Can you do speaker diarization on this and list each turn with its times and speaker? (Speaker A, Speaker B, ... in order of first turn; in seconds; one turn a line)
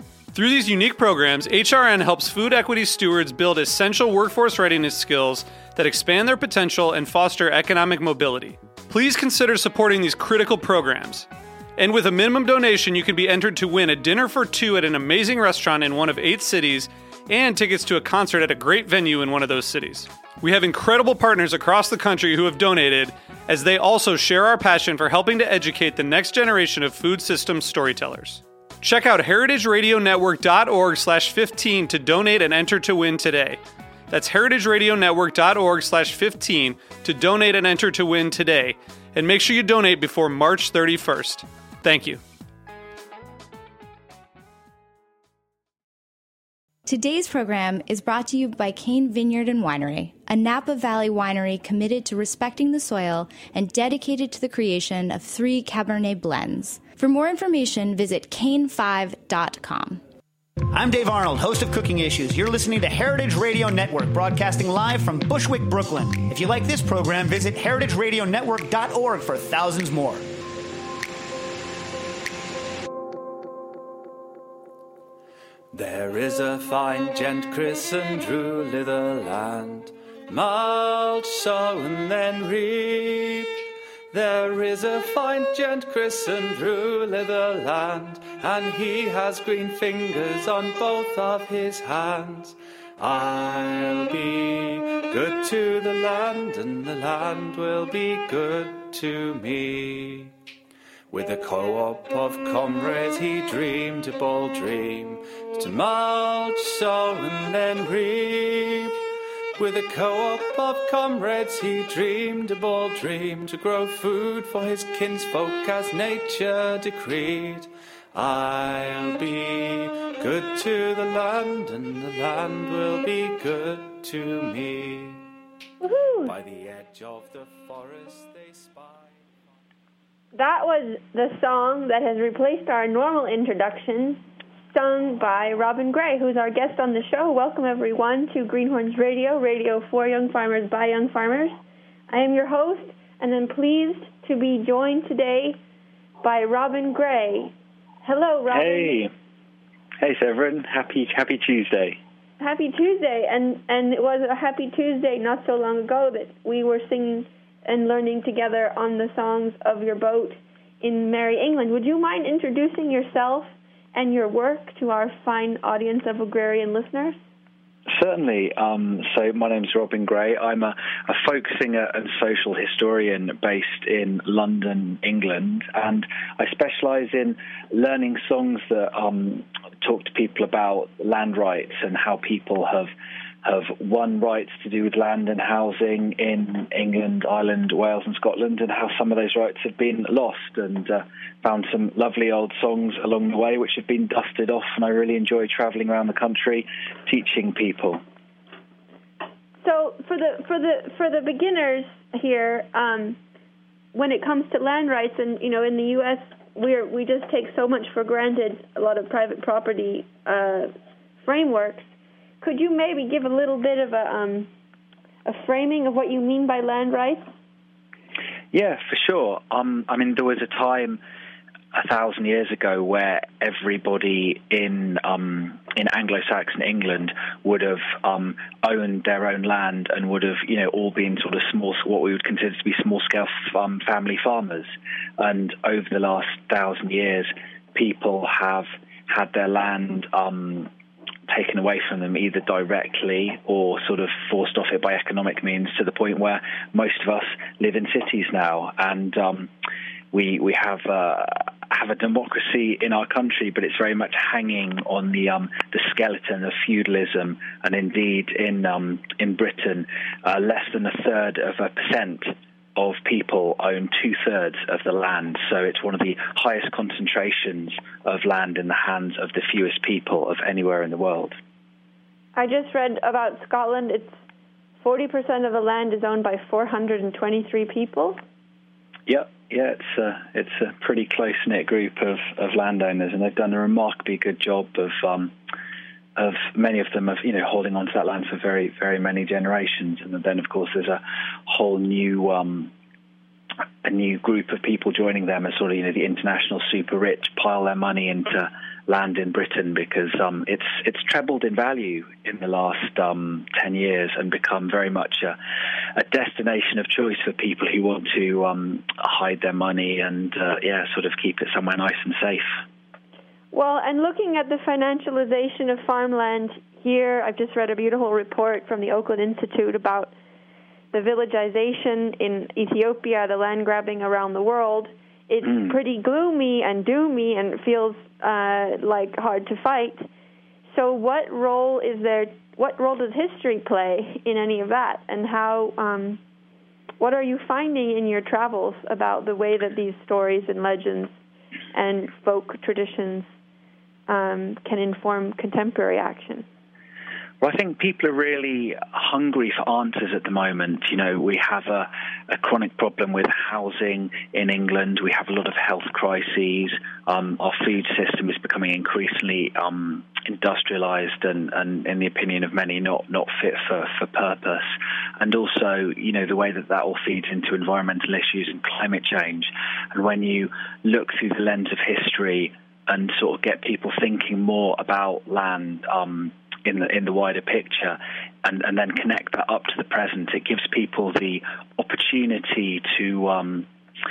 Speaker A: 0.3-42.2
Speaker B: 46.9-60.0
Speaker C: 60.7-70.2
Speaker D: 75.7-100.3
Speaker D: 101.1-109.0
Speaker D: 109.6-125.2
Speaker E: 125.8-126.3
Speaker D: 126.2-129.1
Speaker E: 130.3-134.2
Speaker E: 134.7-141.5
Speaker E: 142.1-145.6
Speaker E: 146.2-148.9
Speaker F: 148.5-149.1
Speaker F: 150.0-152.0
Speaker E: 152.4-167.2
Speaker F: 167.9-182.9
Speaker F: 183.4-198.0
Speaker E: 199.6-203.2
Speaker E: 203.9-210.7
Speaker E: 211.2-211.9
Speaker E: 212.4-214.5
Speaker E: 215.2-217.3
Speaker F: 218.5-221.0
Speaker F: 221.7-240.7
Speaker F: 241.3-249.5
Speaker F: 250.1-271.4
Speaker E: 272.4-274.1
Speaker E: 274.8-278.2
Speaker F: 279.1-285.3
Speaker F: 286.1-292.7
Speaker F: 293.8-305.4
Speaker F: 305.9-312.6
Speaker E: 313.5-320.1
Speaker E: 320.9-330.1
Speaker E: 330.7-336.2
Speaker E: 337.0-341.1
Speaker E: 341.7-343.3
Speaker E: 344.1-346.4
Speaker F: 347.4-383.7